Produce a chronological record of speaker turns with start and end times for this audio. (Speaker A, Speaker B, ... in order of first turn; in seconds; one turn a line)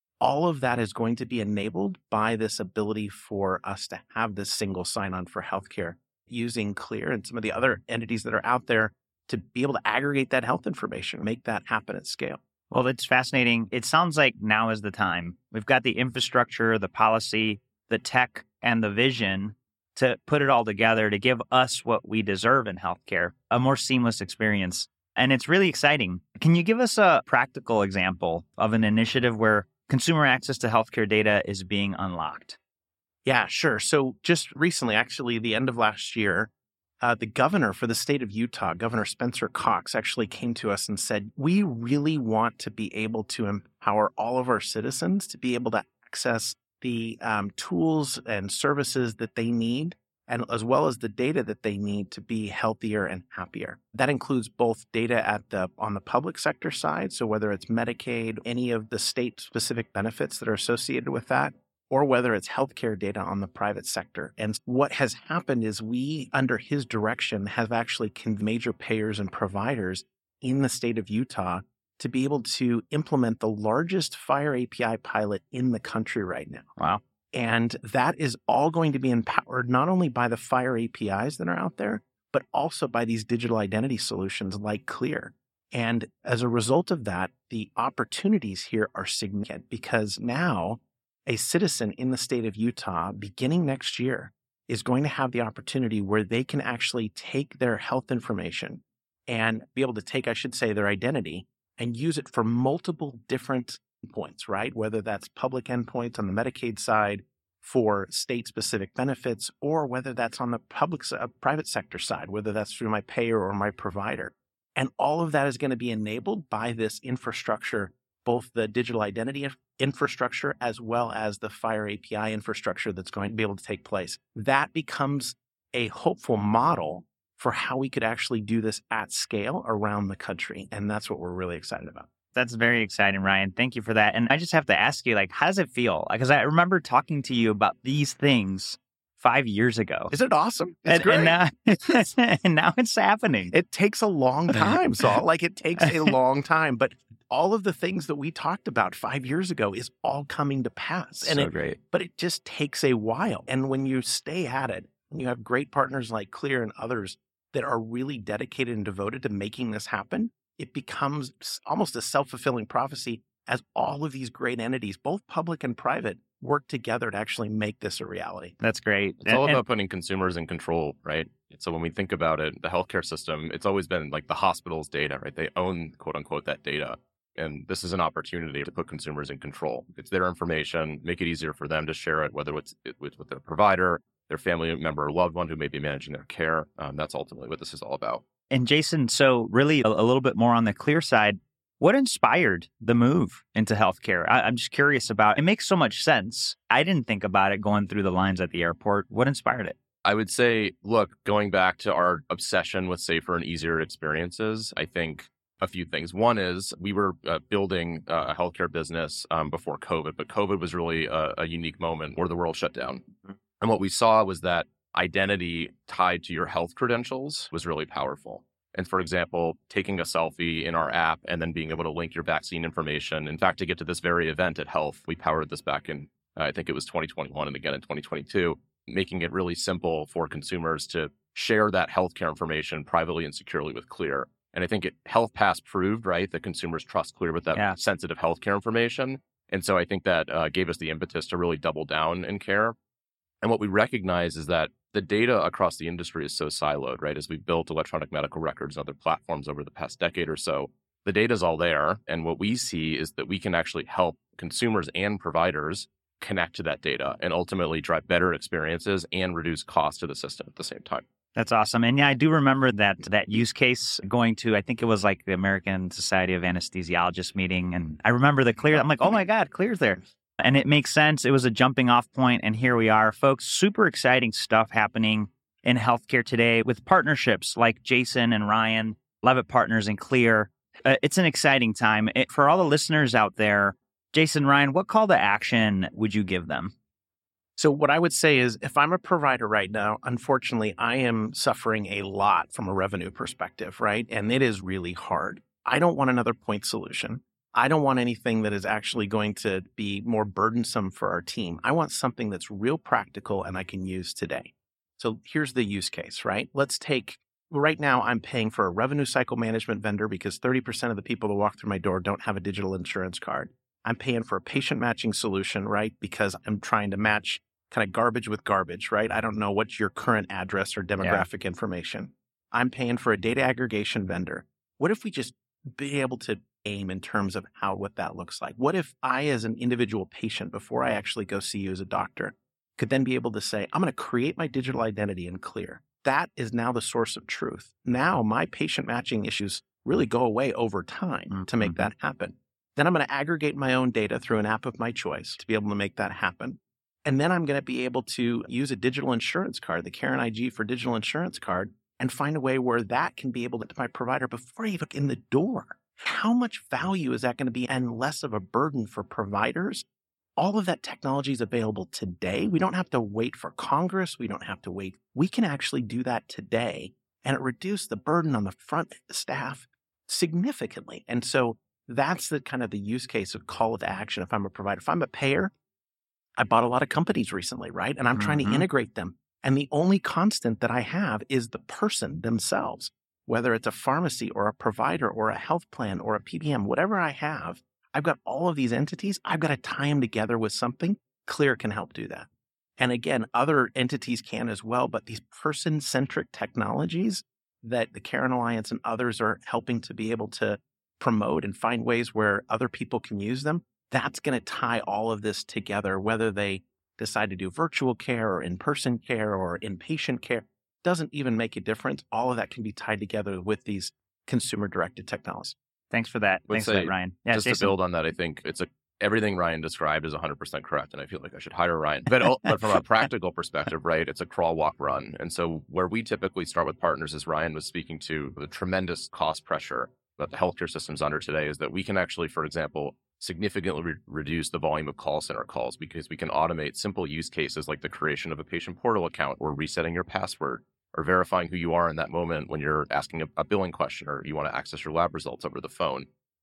Speaker A: 0.2-12.4
Speaker B: 12.7-32.6
Speaker A: 33.2-36.5
Speaker A: 37.0-76.7
Speaker A: 77.3-132.1
Speaker B: 132.3-140.1
Speaker A: 140.1-141.4
Speaker B: 140.8-143.5
Speaker A: 143.5-168.5
Speaker B: 144.5-145.1
Speaker B: 145.8-146.1
Speaker C: 151.2-151.8
Speaker B: 168.6-169.6
Speaker C: 169.2-188.2
Speaker B: 188.5-199.7
Speaker C: 200.0-242.7
Speaker C: 243.4-261.0
Speaker B: 261.3-286.7
Speaker A: 287.6-359.8
Speaker B: 321.0-321.2
Speaker B: 341.3-341.9
Speaker A: 360.4-375.5
Speaker A: 376.4-392.3
Speaker B: 378.1-378.6
Speaker A: 392.8-415.5
Speaker B: 415.9-417.7
Speaker C: 416.5-446.1